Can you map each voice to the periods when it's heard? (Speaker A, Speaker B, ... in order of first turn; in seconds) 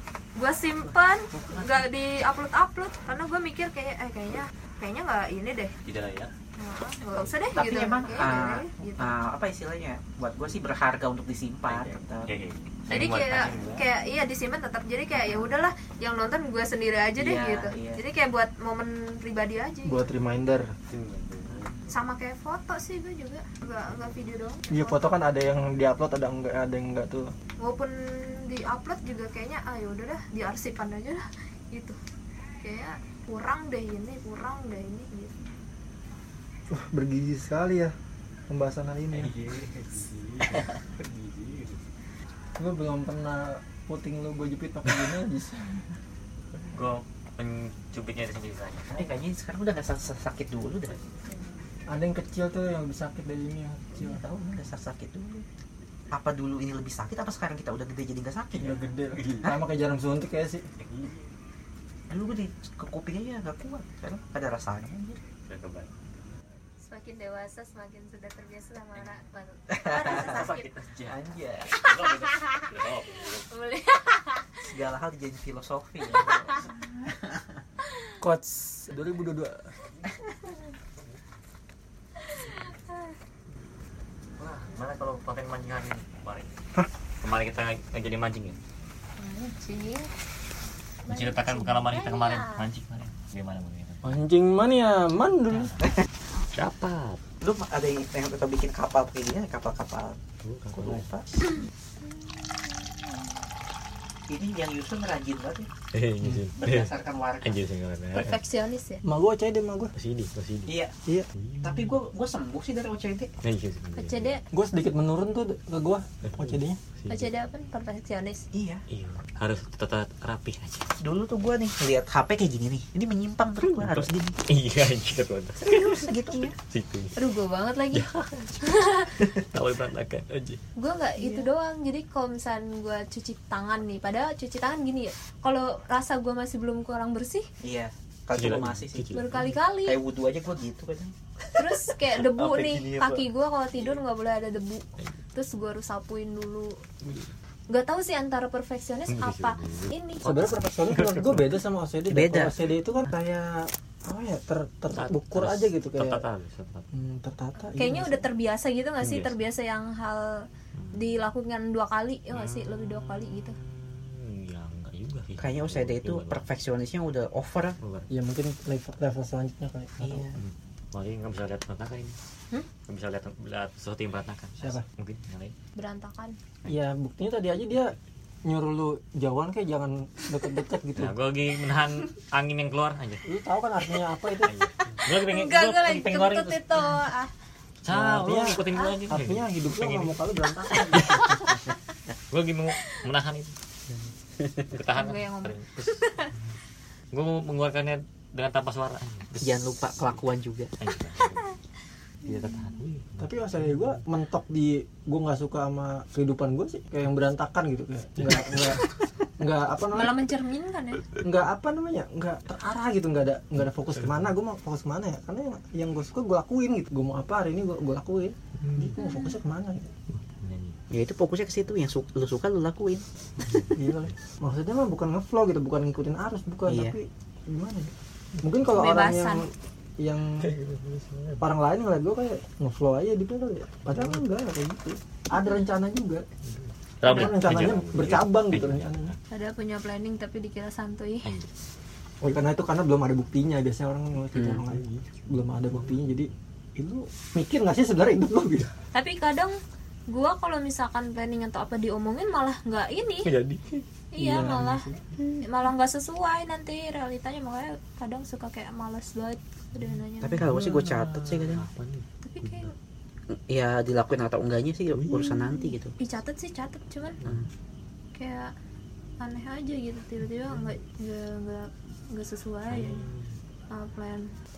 Speaker A: 0.4-5.7, 6.6-9.2, 12.9-20.1, 21.9-25.1, 27.6-32.0, 32.6-35.5, 66.8-70.7, 71.7-74.7, 76.2-76.6, 82.2-83.1, 89.2-90.1, 91.0-92.7, 108.1-109.0, 114.0-114.4, 117.1-118.5, 127.2-128.1, 128.6-129.1, 130.8-137.5, 139.1-140.0, 141.6-146.8, 147.7-150.2, 157.8-160.3, 160.9-163.6, 175.8-176.4, 185.1-187.3, 194.9-196.3, 209.9-211.1, 219.0-219.3, 228.8-229.5, 239.3-241.3, 248.9-249.6, 250.1-253.3, 254.1-254.9, 255.4-260.5, 262.2-262.7, 266.0-267.2, 268.1-268.5, 269.2-273.1, 273.7-274.3
Speaker B: 1.4-1.7, 7.1-12.3, 13.5-13.8, 17.2-18.0, 21.5-21.8, 49.0-51.0, 54.0-55.5, 56.1-58.8, 62.1-65.2, 69.7-70.5, 71.1-71.8, 74.6-77.6, 97.4-100.2, 100.7-101.7, 104.3-105.7, 106.6-107.6, 110.7-111.0, 111.6-113.3, 118.5-118.8, 121.0-124.4, 125.6-126.5, 131.2-131.5, 137.6-139.1, 139.8-143.3, 152.1-152.5, 165.4-167.8, 170.0-170.4, 199.4-200.8, 220.9-223.6, 226.7-227.0, 244.4-244.6, 260.2-261.6, 263.3-265.9
Speaker C: 5.8-6.3, 11.7-13.8, 20.9-21.7, 39.1-41.8, 46.6-49.2, 58.6-59.4, 60.8-61.3, 65.5-65.9, 69.9-73.5, 84.4-86.5, 87.2-88.6, 91.1-94.2, 96.5-97.2, 100.4-101.0, 105.9-108.4, 110.0-110.7, 111.4-112.0, 113.4-114.4, 117.0-117.3, 118.9-121.0, 123.7-125.9, 126.6-127.2, 127.9-130.6, 138.3-139.6, 147.0-147.3, 149.1-151.5, 154.9-156.9, 159.0-159.3, 160.7-161.0, 162.3-166.4, 167.8-168.1, 170.4-172.2, 172.9-175.5, 181.0-183.2, 184.4-187.0, 187.8-190.2, 190.9-191.2, 192.3-193.5, 194.7-196.1, 197.1-200.2, 200.8-201.4, 202.2-203.2, 208.2-208.8, 218.7-218.9, 220.1-220.8, 230.4-231.4, 236.5-239.1, 244.5-245.7, 253.2-253.8, 260.4-262.7, 264.9-265.5, 272.7-273.3
Speaker D: 19.9-20.8, 24.7-27.3, 36.7-37.9, 38.5-39.4, 42.6-46.0, 51.9-54.2, 58.6-60.7, 78.2-79.7, 94.0-95.7, 109.0-109.9, 114.5-116.8, 150.2-156.2, 156.9-158.2, 168.1-170.3, 174.6-174.8, 176.7-181.1, 183.3-184.6, 187.9-191.2, 203.2-210.2, 211.2-219.9, 223.7-230.5, 231.4-236.2, 237.0-239.2, 242.2-248.8, 254.2-255.0